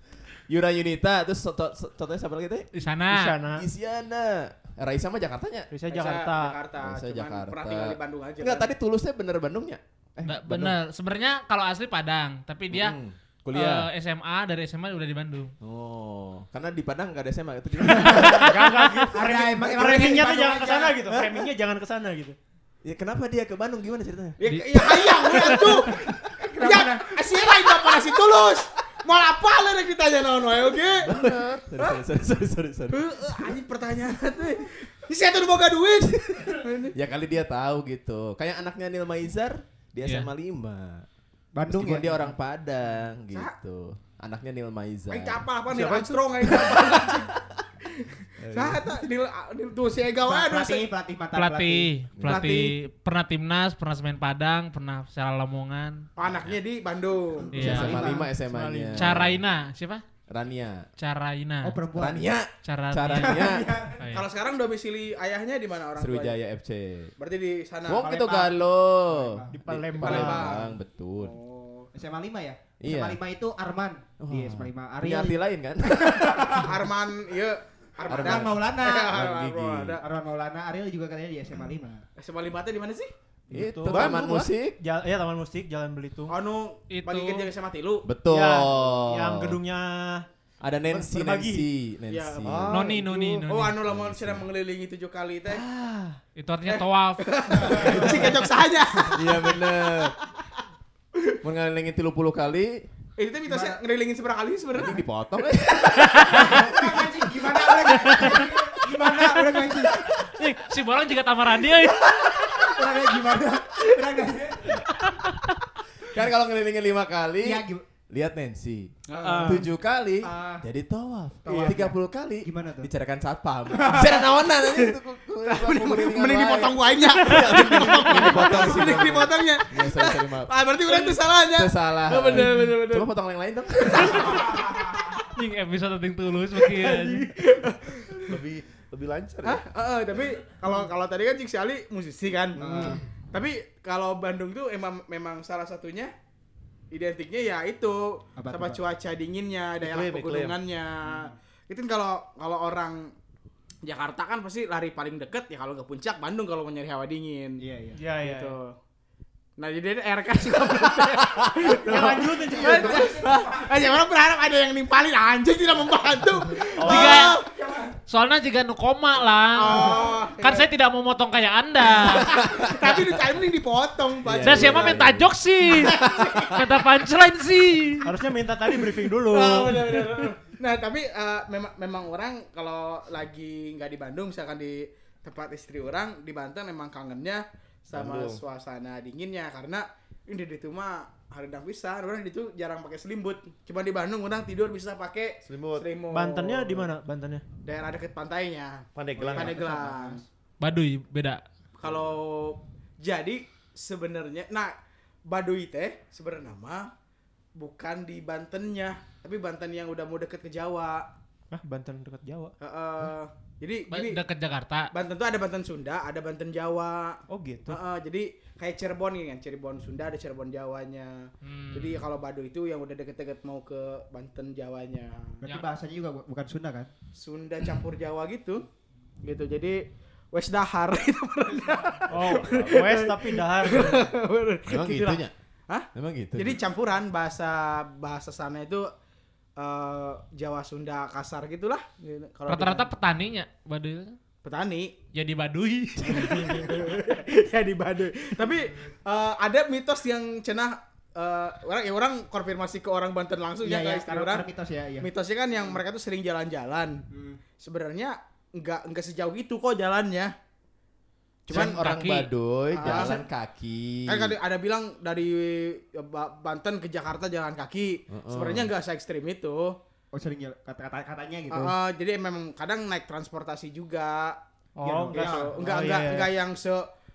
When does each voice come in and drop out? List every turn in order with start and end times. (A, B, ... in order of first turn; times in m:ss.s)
0:00.5-0:02.7 A
0:02.7-0:03.4 B
0:03.1-0:03.6 C
0:03.5-0:05.7 A
0:05.7-0:06.6 C
0:05.9-0:08.7 D
0:06.8-0:09.8 A
0:10.2-0:10.5 E
0:10.2-0:13.0 B
0:12.7-0:13.9 A
0:13.5-0:15.5 B
0:15.6-0:18.6 A
0:18.0-0:18.5 E
0:18.1-0:19.0 B
0:18.1-0:22.4 C
0:19.0-0:21.0 E
0:22.8-0:24.4 A
0:24.4-0:31.1 D
0:24.5-0:25.9 B
0:26.2-0:27.3 E
0:31.0-0:33.4 A
0:31.1-0:31.6 F
0:32.9-0:36.9 D
0:36.4-0:41.0 A
0:41.5-0:42.3 E
0:41.7-0:45.4 A
0:45.1-0:47.3 D
0:45.7-0:46.9 F
0:47.3-0:47.6 A
0:48.0-0:50.8 D
0:48.4-0:48.9 A
0:50.2-0:51.9 E
0:51.3-0:56.6 B
0:52.2-0:52.6 A
0:52.3-0:52.7 D
0:56.2-0:57.6 D
0:57.4-0:58.3 E
0:57.5-0:58.1 B
0:57.5-0:59.4 A
0:58.4-0:59.1 C
0:58.9-1:00.0 B
1:00.3-1:00.9 A
1:01.0-1:01.8 B
1:01.6-1:02.3 E
1:02.0-1:03.7 A
1:02.6-1:03.4 B
1:03.1-1:04.1 E
1:04.0-1:04.3 B
1:04.1-1:06.4 D
1:06.0-1:07.1 A
1:07.2-1:08.3 D
1:07.9-1:11.4 A
1:08.0-1:09.5 E
1:09.5-1:10.6 C
1:10.0-1:11.9 D
1:11.9-1:16.7 E
1:12.8-1:13.2 A
1:14.2-1:16.7 A
1:16.5-1:20.0 D
1:18.1-1:20.0 A
1:18.1-1:19.2 E
1:20.0-1:22.0 E
1:22.2-1:23.1 D
1:23.5-1:24.2 C
1:23.5-1:24.8 A
1:23.8-1:24.5 F
1:24.8-1:26.4 C
1:26.3-1:28.1 D
1:26.9-1:27.5 B
1:28.0-1:29.6 A
1:28.3-1:30.3 C
1:30.6-1:32.8 A
1:30.9-1:31.7 C
1:32.1-1:32.6 D
1:32.4-1:33.4 F
1:32.7-1:33.8 B
1:33.4-1:35.6 D
1:33.9-1:34.4 A
1:35.5-1:36.2 A
1:36.4-1:38.1 B
1:36.7-1:40.0 D
1:37.7-1:38.0 E
1:39.1-1:40.1 A
1:41.4-1:42.8 A
1:43.2-1:45.0 D
1:44.7-1:46.8 A
1:46.0-1:46.6 B
1:46.2-1:50.0 E
1:47.9-1:48.5 B
1:50.0-1:52.8 B
1:52.6-1:54.8 E
1:56.1-2:11.0 A
1:57.4-1:57.8 E
1:59.1-1:59.7 D
1:59.2-1:59.6 C
2:00.2-2:00.6 E
2:01.4-2:02.9 E
2:03.7-2:04.3 E
2:05.4-2:13.1 D
2:07.9-2:08.2 B
2:11.6-2:14.6 A
2:14.0-2:15.2 D
2:15.3-2:17.3 B
2:16.6-2:18.4 D
2:18.2-2:19.6 F
2:19.4-2:26.1 D
2:22.6-2:23.0 E
2:26.9-2:33.1 D
2:28.4-2:28.8 E
2:29.8-2:30.6 F
2:31.0-2:31.3 E
2:33.8-2:37.6 D
2:37.6-2:38.0 E
2:38.0-2:38.6 C
2:38.2-2:38.8 D
2:39.6-2:47.5 D
2:41.8-2:43.0 C
2:41.8-2:43.8 E
2:46.8-2:47.4 B
2:47.6-2:47.9 E
2:48.1-2:52.3 B
2:49.6-2:50.7 D
2:52.0-2:55.0 D
2:52.0-2:53.2 A
2:54.2-2:56.6 A
2:54.4-2:58.1 B
2:55.7-2:56.6 D
2:58.0-3:00.0 C
2:58.6-3:16.9 D
3:07.9-3:08.4 F
3:15.4-3:15.8 F
3:16.1-3:17.4 C
3:17.6-3:20.2 D
3:18.9-3:19.7 F
3:19.2-3:20.2 E
3:20.6-3:21.4 B
3:21.8-3:24.7 D
3:21.8-3:22.1 F
3:25.2-3:26.9 D
3:27.6-3:31.1 D
3:31.5-3:32.5 C
3:32.6-3:34.2 D
3:33.9-3:34.9 B
3:34.9-3:45.4 D
3:37.3-3:37.8 C
3:41.4-3:42.0 B
3:45.4-3:46.9 E
3:47.2-3:48.6 D
3:49.2-3:49.8 D
3:50.3-3:58.9 D
3:52.1-3:54.1 C
3:54.7-3:55.3 A
3:55.9-3:56.6 A
3:59.6-4:02.9 D
4:02.5-4:04.2 B
4:04.4-4:04.9 D
4:05.1-4:06.8 B
4:06.0-4:14.4 D
4:13.6-4:15.1 E
4:15.0-4:17.0 D
4:17.1-4:17.4 E
4:17.6-4:20.3 D
4:21.5-4:21.8 D
4:21.5-4:22.3 B
4:21.5-4:24.3 A
4:22.7-4:23.2 D
4:24.0-4:29.8 D
4:28.1-4:28.7 A
4:30.1-4:31.8 E
4:31.5-4:34.4 D
4:34.8-4:36.3 C
4:34.8-4:35.5 E
4:35.0-4:36.9 D